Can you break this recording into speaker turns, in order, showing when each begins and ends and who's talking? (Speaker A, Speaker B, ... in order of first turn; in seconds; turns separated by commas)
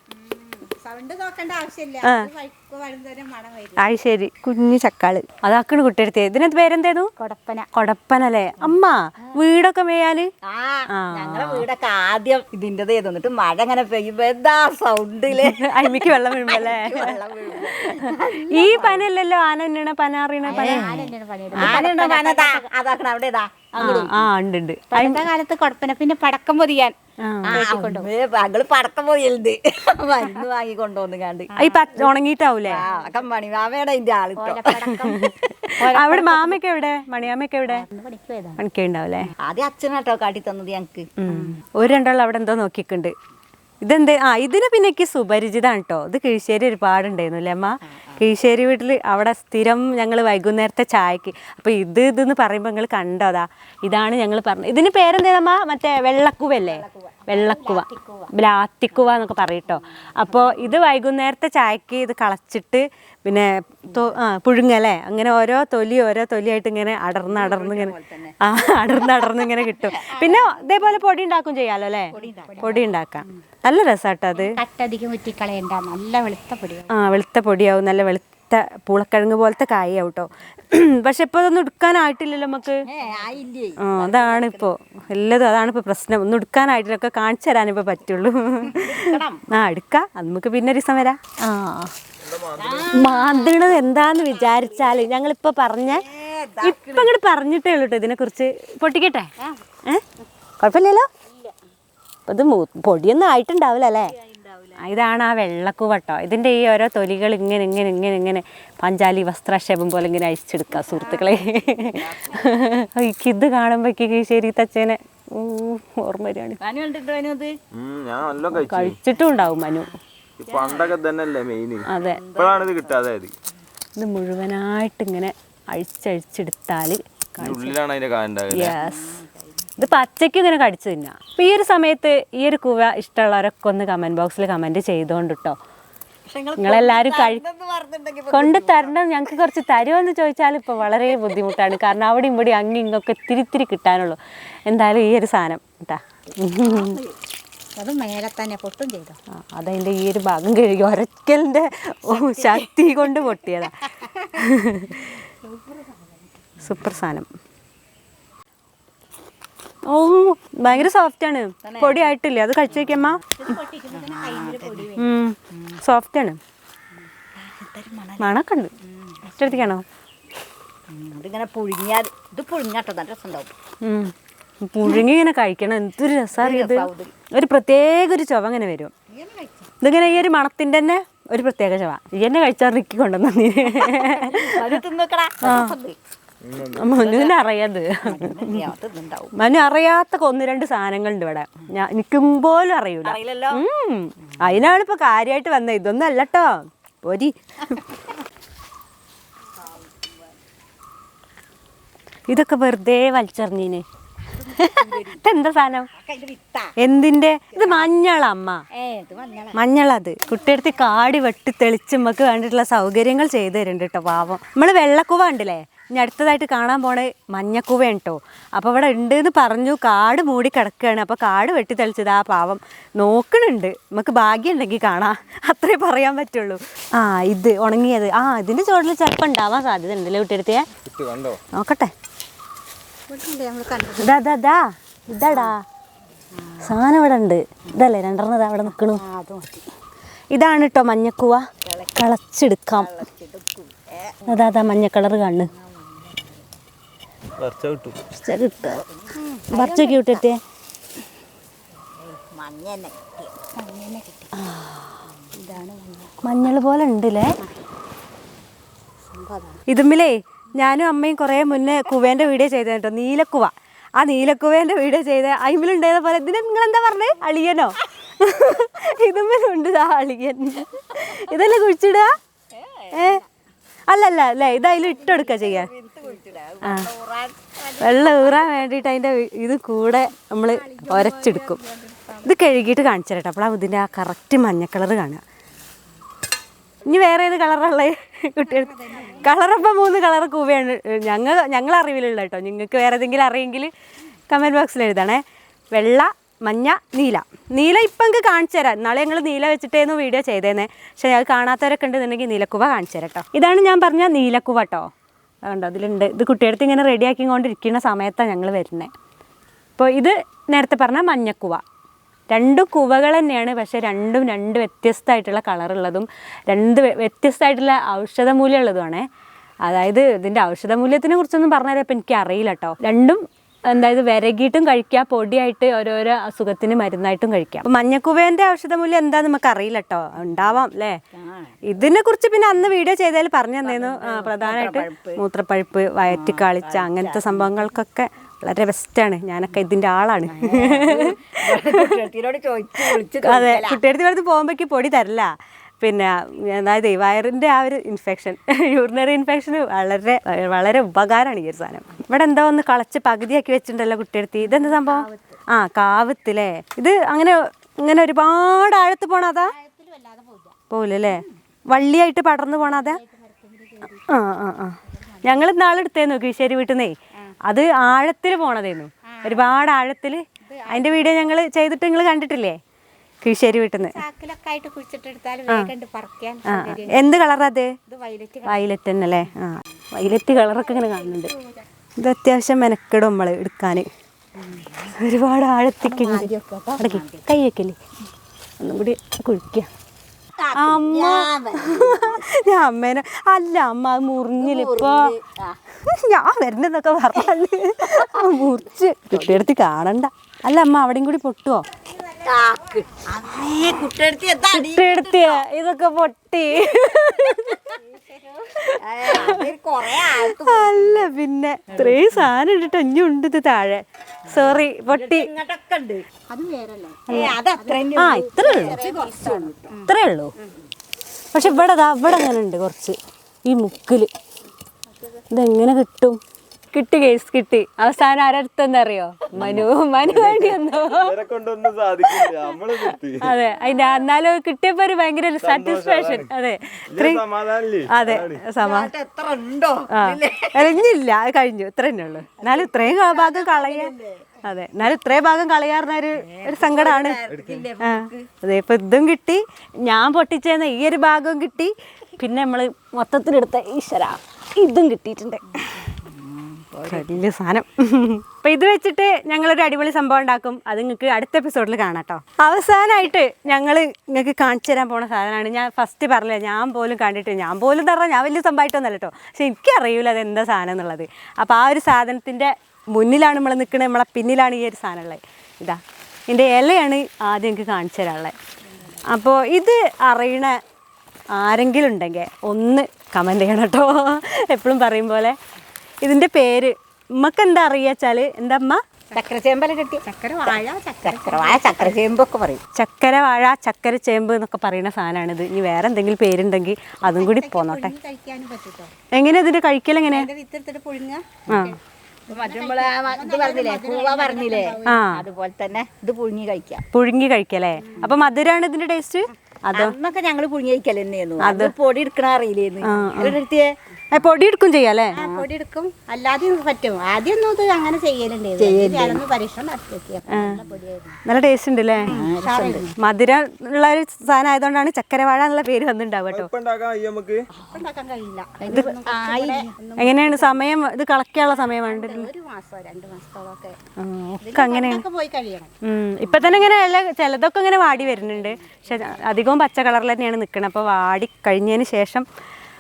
Speaker A: 0.2-3.9, Speaker B: 2.0-2.3, Speaker B: 3.8-7.1, Speaker A: 7.2-7.7, Speaker B: 7.7-10.3, Speaker C: 10.4-19.1, Speaker B: 10.9-11.7, Speaker B: 15.3-21.0, Speaker A: 20.4-22.6, Speaker C: 20.5-24.2, Speaker B: 23.8-25.2, Speaker A: 23.8-24.1, Speaker A: 24.9-26.9, Speaker B: 27.2-27.7, Speaker A: 27.5-28.1, Speaker C: 27.5-31.8, Speaker B: 31.6-32.8, Speaker C: 32.7-35.2, Speaker A: 34.4-35.3, Speaker B: 34.9-37.9, Speaker A: 35.8-36.4, Speaker A: 37.7-38.6, Speaker B: 38.6-39.3, Speaker C: 39.4-41.5, Speaker B: 41.2-43.1, Speaker B: 43.8-74.6, Speaker C: 47.9-48.2, Speaker A: 56.7-58.3, Speaker A: 60.3-60.6, Speaker C: 67.3-68.4, Speaker C: 69.0-70.6, Speaker C: 72.1-72.8, Speaker A: 72.2-72.9, Speaker A: 74.3-76.9, Speaker B: 76.9-82.8, Speaker C: 82.9-84.7, Speaker B: 83.8-91.9, Speaker C: 88.7-89.4, Speaker D: 92.2-92.9, Speaker C: 92.6-93.8, Speaker B: 92.9-96.0, Speaker C: 95.9-97.1, Speaker B: 96.6-99.3, Speaker B: 100.6-101.1, Speaker B: 102.3-104.1, Speaker C: 104.1-104.8, Speaker B: 104.8-116.6, Speaker C: 110.8-112.5, Speaker C: 116.6-117.5, Speaker D: 117.7-119.0, Speaker B: 118.5-119.9, Speaker D: 120.4-123.3, Speaker C: 120.5-121.0, Speaker B: 121.9-122.2, Speaker C: 122.0-123.0, Speaker B: 124.0-127.8, Speaker D: 127.4-128.8, Speaker B: 128.5-129.2, Speaker C: 128.8-129.7, Speaker B: 129.8-135.6, Speaker C: 136.3-139.0, Speaker B: 136.6-137.4, Speaker B: 138.3-147.0, Speaker C: 146.6-147.2, Speaker A: 147.8-149.2, Speaker B: 149.3-155.1, Speaker C: 152.1-152.7, Speaker A: 155.4-156.1, Speaker B: 156.6-157.3, Speaker B: 159.9-163.2, Speaker C: 161.6-162.1, Speaker C: 163.3-164.9, Speaker A: 163.3-165.2, Speaker B: 165.0-166.4, Speaker C: 165.5-165.8, Speaker C: 167.3-168.3, Speaker B: 168.2-168.7, Speaker C: 169.0-169.6, Speaker B: 169.2-169.8, Speaker C: 170.9-173.5, Speaker B: 173.8-178.9, Speaker C: 176.4-177.1, Speaker C: 179.1-179.7, Speaker B: 179.8-184.8, Speaker C: 183.7-186.0, Speaker B: 185.4-185.8, Speaker D: 186.4-186.8, Speaker B: 186.7-188.7, Speaker C: 186.9-187.4, Speaker C: 188.0-189.4, Speaker B: 189.3-197.8, Speaker C: 193.0-193.6, Speaker B: 202.3-203.9, Speaker C: 204.4-205.2, Speaker B: 204.6-205.9, Speaker C: 206.0-206.7, Speaker B: 206.8-208.6, Speaker C: 207.5-207.9, Speaker C: 208.7-209.6, Speaker B: 209.6-230.7, Speaker D: 230.8-231.4, Speaker B: 231.5-231.9, Speaker A: 233.1-234.2, Speaker B: 234.0-235.6, Speaker A: 236.4-236.7, Speaker B: 236.6-239.0, Speaker A: 238.9-239.7, Speaker B: 240.3-241.4, Speaker C: 241.6-242.1, Speaker B: 241.9-242.9, Speaker C: 242.7-244.3, Speaker B: 244.3-245.5, Speaker C: 245.5-246.4, Speaker D: 247.4-248.0, Speaker B: 248.1-248.8, Speaker C: 248.6-249.2, Speaker A: 249.2-250.2, Speaker B: 249.5-250.4, Speaker C: 252.0-253.3, Speaker A: 253.6-254.3, Speaker B: 254.4-255.0, Speaker A: 255.4-256.2, Speaker B: 256.2-257.4, Speaker A: 259.1-259.6, Speaker B: 259.7-272.2, Speaker C: 272.5-273.1, Speaker B: 272.9-273.2, Speaker B: 273.9-275.7, Speaker C: 274.7-278.4, Speaker B: 276.6-276.9, Speaker B: 277.8-281.6, Speaker A: 280.4-282.3, Speaker B: 282.2-285.2, Speaker B: 286.8-293.7, Speaker A: 288.4-289.4, Speaker B: 294.3-295.2, Speaker B: 295.7-304.9, Speaker B: 305.5-308.9, Speaker B: 309.8-311.6, Speaker B: 312.3-319.1, Speaker B: 319.6-331.0, Speaker C: 331.1-331.7, Speaker B: 331.7-342.0, Speaker C: 333.6-335.2, Speaker C: 336.1-337.6, Speaker C: 340.3-343.8, Speaker B: 342.9-345.3, Speaker B: 345.8-359.5, Speaker A: 354.4-355.4, Speaker A: 359.4-360.6, Speaker B: 360.7-363.0, Speaker A: 362.6-364.3, Speaker B: 364.1-366.9, Speaker A: 364.9-365.4, Speaker B: 367.5-372.6, Speaker A: 369.1-369.5, Speaker A: 370.4-371.2, Speaker B: 373.2-374.0, Speaker A: 373.8-377.2, Speaker B: 376.5-377.7, Speaker A: 377.9-378.7, Speaker B: 378.5-381.3, Speaker A: 380.1-381.6, Speaker B: 382.0-383.9, Speaker B: 384.9-387.8, Speaker C: 385.9-387.2, Speaker A: 386.0-386.7, Speaker B: 388.6-389.7, Speaker C: 390.4-392.3, Speaker B: 390.6-395.1, Speaker C: 394.4-395.6, Speaker B: 395.9-401.6, Speaker C: 399.1-399.4, Speaker C: 402.2-405.4, Speaker B: 404.5-407.8, Speaker B: 408.6-415.3, Speaker C: 408.8-411.1, Speaker C: 411.7-412.0, Speaker C: 414.3-416.1, Speaker A: 416.3-419.9, Speaker C: 417.1-419.8, Speaker B: 417.1-417.3, Speaker B: 417.9-418.9, Speaker B: 419.9-420.3, Speaker B: 421.3-424.1, Speaker B: 425.3-426.2, Speaker B: 426.7-431.2, Speaker D: 429.4-433.3, Speaker B: 432.1-437.2, Speaker D: 435.4-436.3, Speaker D: 436.9-438.4, Speaker B: 437.9-438.9, Speaker C: 438.6-440.9, Speaker B: 439.9-447.2, Speaker C: 442.4-444.4, Speaker C: 446.2-448.3, Speaker D: 447.3-447.7, Speaker B: 447.8-455.9, Speaker C: 456.0-457.2, Speaker B: 456.9-478.4, Speaker B: 479.1-480.6, Speaker B: 481.3-485.4, Speaker B: 486.0-488.8, Speaker C: 489.1-490.0, Speaker A: 490.0-491.9, Speaker C: 491.1-492.6, Speaker B: 492.8-497.9, Speaker A: 497.0-498.9, Speaker B: 499.1-500.3, Speaker A: 500.1-505.1, Speaker B: 501.5-501.8, Speaker C: 502.3-506.8, Speaker B: 504.9-505.2, Speaker B: 506.9-509.9, Speaker A: 507.8-508.1, Speaker C: 509.7-513.7, Speaker B: 511.4-511.7, Speaker B: 512.8-513.4, Speaker B: 514.1-515.2, Speaker A: 515.1-521.2, Speaker C: 515.2-515.5, Speaker C: 518.6-519.2, Speaker B: 520.3-520.6, Speaker B: 521.2-522.2, Speaker C: 522.1-522.9, Speaker A: 522.1-522.9, Speaker B: 523.0-526.5, Speaker D: 526.3-527.5, Speaker A: 527.7-530.6, Speaker C: 528.6-529.7, Speaker B: 530.0-532.3, Speaker A: 531.5-533.8, Speaker B: 534.0-535.0, Speaker A: 534.4-535.7, Speaker B: 535.8-542.3, Speaker A: 536.2-536.6, Speaker A: 538.1-539.1